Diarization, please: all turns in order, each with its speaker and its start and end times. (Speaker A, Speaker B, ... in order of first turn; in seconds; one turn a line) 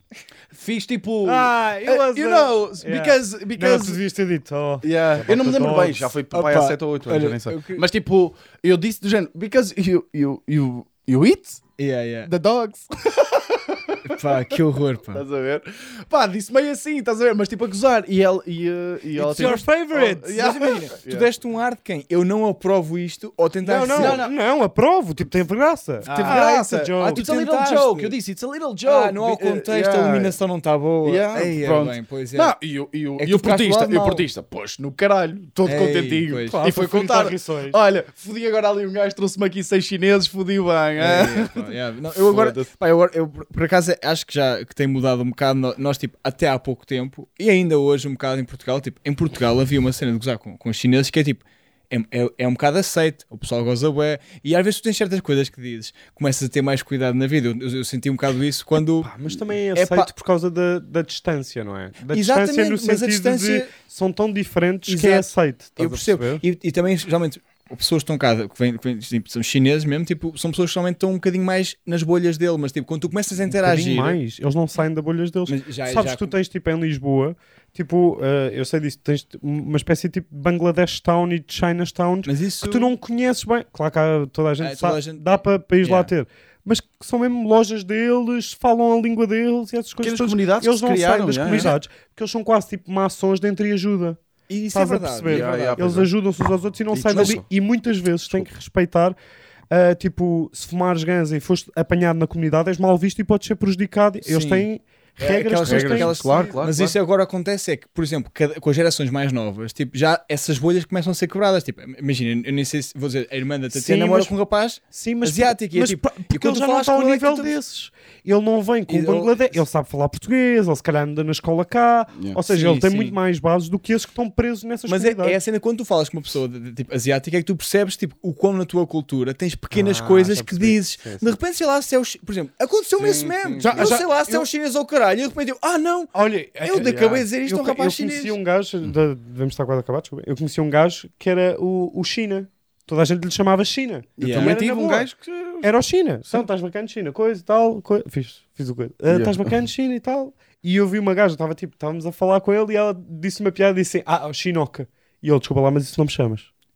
Speaker A: 0.5-4.0
Speaker B: 1.2-6.2
Speaker A: 4.8-11.6
Speaker C: 6.3-7.8
Speaker C: 11.8-12.3
Speaker A: 12.2-14.3
Speaker C: 14.1-15.2
Speaker A: 15.1-21.3
Speaker B: 19.2-20.4
Speaker C: 19.2-19.6
Speaker C: 20.3-24.2
Speaker B: 23.6-27.8
Speaker A: 23.9-24.3
Speaker C: 26.0-28.1
Speaker A: 26.0-30.4
Speaker C: 28.8-32.5
Speaker A: 31.0-42.7
Speaker C: 33.2-34.2
Speaker C: 35.6-36.6
Speaker B: 36.5-37.8
Speaker C: 41.0-59.1
Speaker B: 59.0-66.4
Speaker C: 59.7-60.1
Speaker C: 62.1-63.7
Speaker C: 64.9-74.2
Speaker B: 73.5-94.2
Speaker C: 75.5-76.3
Speaker C: 82.2-82.9
Speaker C: 84.6-86.1
Speaker A: 90.0-91.7
Speaker C: 91.5-91.8
Speaker C: 94.5-96.0
Speaker B: 94.7-99.2
Speaker A: 95.2-96.1
Speaker A: 96.9-97.4
Speaker C: 97.1-97.4
Speaker B: 99.7-106.2
Speaker C: 104.2-117.5
Speaker A: 105.5-106.9
Speaker B: 113.7-114.3
Speaker B: 114.9-125.4
Speaker C: 118.9-119.6
Speaker C: 122.5-123.2
Speaker C: 124.9-138.4
Speaker B: 129.7-131.3
Speaker A: 133.0-133.9
Speaker B: 133.6-134.5
Speaker B: 136.1-145.1
Speaker A: 136.8-137.2
Speaker A: 144.2-145.7
Speaker C: 144.2-144.6
Speaker B: 145.6-156.5
Speaker A: 149.1-149.5